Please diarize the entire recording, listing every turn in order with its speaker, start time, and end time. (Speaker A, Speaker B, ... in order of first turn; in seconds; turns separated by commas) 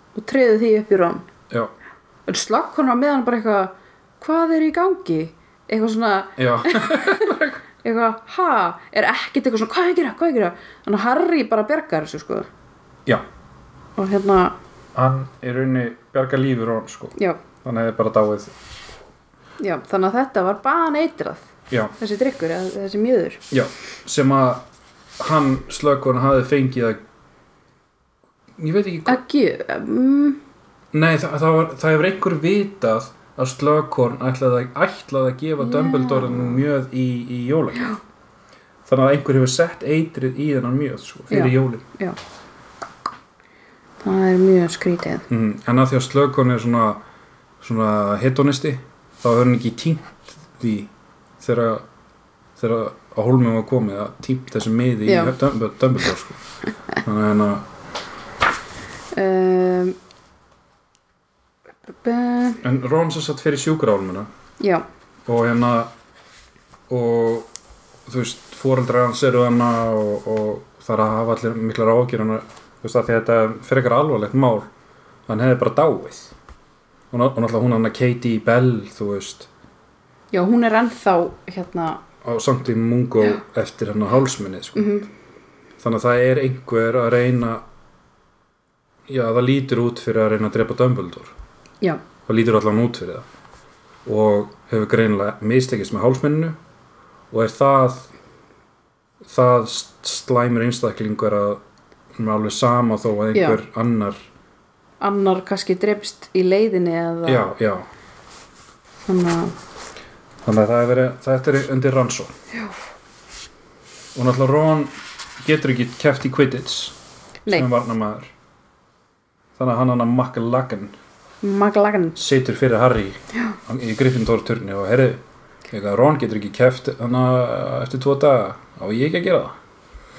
Speaker A: 0.1-1.3, Speaker A: 2.3-12.5, Speaker B: 6.4-7.6, Speaker A: 14.0-14.6, Speaker B: 14.9-18.5, Speaker A: 19.6-21.5, Speaker A: 22.0-23.4, Speaker B: 23.5-24.6, Speaker B: 25.2-27.0, Speaker B: 28.6-29.2, Speaker A: 29.1-30.4, Speaker B: 30.9-37.9, Speaker A: 35.6-36.6, Speaker B: 38.9-41.8, Speaker A: 41.3-42.2, Speaker A: 44.0-45.2, Speaker B: 45.3-47.0, Speaker B: 47.6-51.8, Speaker B: 52.6-56.4, Speaker A: 55.0-55.3, Speaker B: 57.0-57.6, Speaker A: 59.1-60.0, Speaker A: 62.0-62.6, Speaker B: 62.6-64.3, Speaker A: 64.6-64.8, Speaker B: 65.3-65.9, Speaker B: 66.9-67.5, Speaker B: 68.0-74.7, Speaker B: 75.3-76.3, Speaker B: 77.1-79.5, Speaker A: 80.3-82.0, Speaker B: 82.2-84.9, Speaker A: 84.8-85.1, Speaker B: 85.8-87.6, Speaker B: 89.1-91.3, Speaker B: 92.3-93.3, Speaker B: 94.0-96.6, Speaker B: 97.3-98.1, Speaker B: 99.2-101.6, Speaker B: 102.2-104.2, Speaker A: 103.3-103.6, Speaker A: 105.0-107.5, Speaker B: 107.2-107.9, Speaker A: 109.0-109.5, Speaker B: 110.4-112.3, Speaker B: 114.1-117.0, Speaker B: 117.5-118.3, Speaker B: 119.6-120.9, Speaker A: 121.4-122.2, Speaker B: 122.2-129.6